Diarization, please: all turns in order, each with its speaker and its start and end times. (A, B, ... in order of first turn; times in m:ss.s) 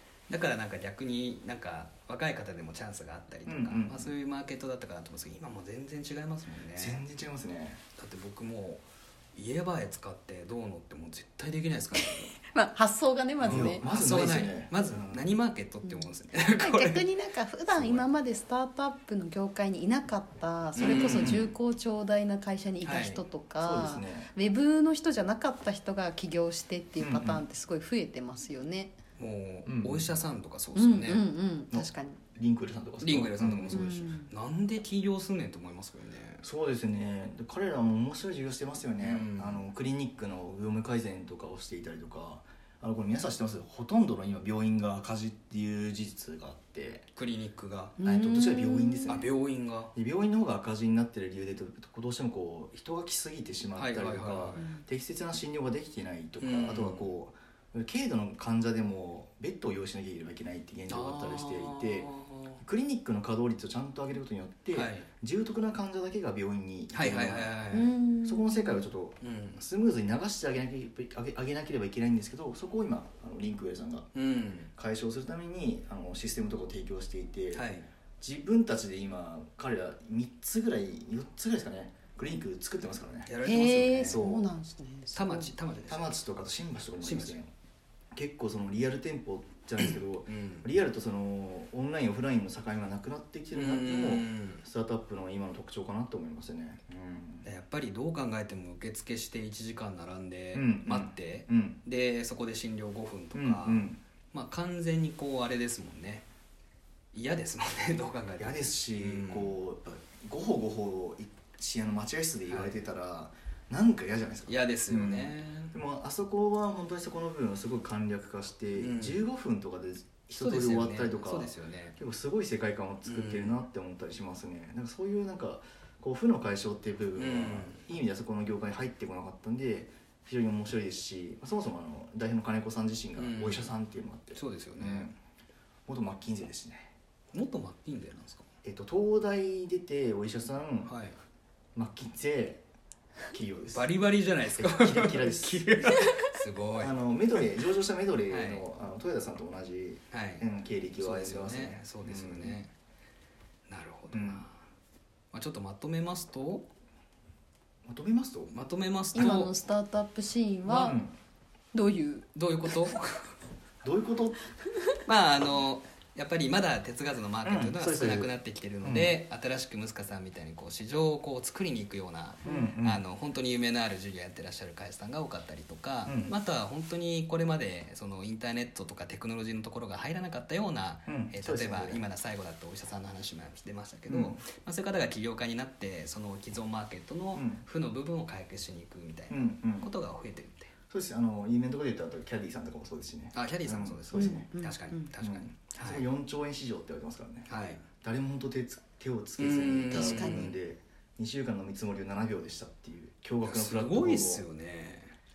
0:00.3-0:07.0 A
0:03.4-0:04.1 B
0:06.7-0:07.8 B
0:08.0-0:12.4 A
0:11.9-0:13.8 C
0:13.4-0:17.0 A
0:13.5-0:15.2 B
0:15.8-0:28.9 C
0:17.8-0:18.0 B
0:20.8-0:21.5 A
0:20.8-0:21.5 B
0:22.8-0:23.2 A
0:23.6-0:24.3 B
0:27.0-0:27.4 B
0:29.2-0:31.2 A
0:29.6-0:30.1 B
0:30.7-0:32.2 C
0:31.7-0:34.1 B
0:33.0-0:36.4 A
0:33.7-0:34.3 C
0:36.4-0:47.1 B
0:39.0-0:39.7 A
0:47.2-0:47.9 A
0:48.0-0:49.2 C
0:48.0-0:49.3 B
0:49.1-0:49.9 A
0:49.9-1:02.1 B
0:53.7-0:54.6 A
0:54.6-0:54.8 C
0:56.4-0:57.0 A
1:00.9-1:02.6 A
1:02.6-1:07.5 B
1:04.7-1:05.1 A
1:06.9-1:07.9 A
1:07.7-1:08.9 C
1:08.2-1:14.1 B
1:09.2-1:09.6 A
1:14.1-1:14.7 A
1:14.8-1:17.6 B
1:17.5-1:17.9 A
1:18.2-1:23.3 B
1:23.2-1:24.2 A
1:23.4-1:25.5 C
1:24.0-1:24.5 B
1:25.1-1:26.1 A
1:25.9-1:27.5 B
1:27.0-1:27.4 A
1:28.1-1:37.5 B
1:29.8-1:30.7 A
1:33.5-1:34.6 A
1:37.4-1:46.2 A
1:40.5-1:41.8 B
1:43.3-1:44.0 B
1:47.1-1:49.5 A
1:48.4-2:15.1 B
1:52.5-1:52.8 A
1:54.5-1:55.7 A
1:58.7-1:59.2 A
2:00.3-2:01.9 A
2:03.0-2:03.6 A
2:07.2-2:07.8 A
2:13.2-2:13.7 A
2:14.3-2:15.1 A
2:15.9-2:16.9 B
2:17.3-2:18.4 A
2:18.6-2:20.9 B
2:20.8-2:21.2 A
2:21.7-2:22.6 B
2:23.3-2:23.9 B
2:23.7-2:26.9 A
2:24.5-2:25.9 B
2:26.8-2:32.6 B
2:28.3-2:28.6 A
2:30.1-2:30.4 A
2:31.0-2:32.7 A
2:33.7-2:34.6 A
2:34.1-2:34.4 B
2:35.3-2:36.7 A
2:37.8-2:38.5 B
2:38.5-2:39.5 A
2:39.1-2:41.0 C
2:40.7-2:41.1 B
2:41.7-2:42.3 C
2:42.3-2:43.3 A
2:43.8-2:44.4 B
2:45.0-3:10.7 A
2:47.4-2:48.3 B
2:48.8-2:49.1 B
2:52.4-2:52.7 C
2:52.4-2:53.0 B
2:56.0-2:56.3 B
3:01.1-3:02.0 B
3:04.1-3:04.4 B
3:07.3-3:07.6 B
3:09.3-3:09.9 B
3:10.9-3:14.5 B
3:13.3-3:16.0 A
3:14.1-3:15.1 C
3:15.2-3:17.5 B
3:17.5-3:17.8 A
3:18.0-3:24.4 B
3:19.4-3:20.5 A
3:19.9-3:20.5 C
3:23.4-3:25.1 A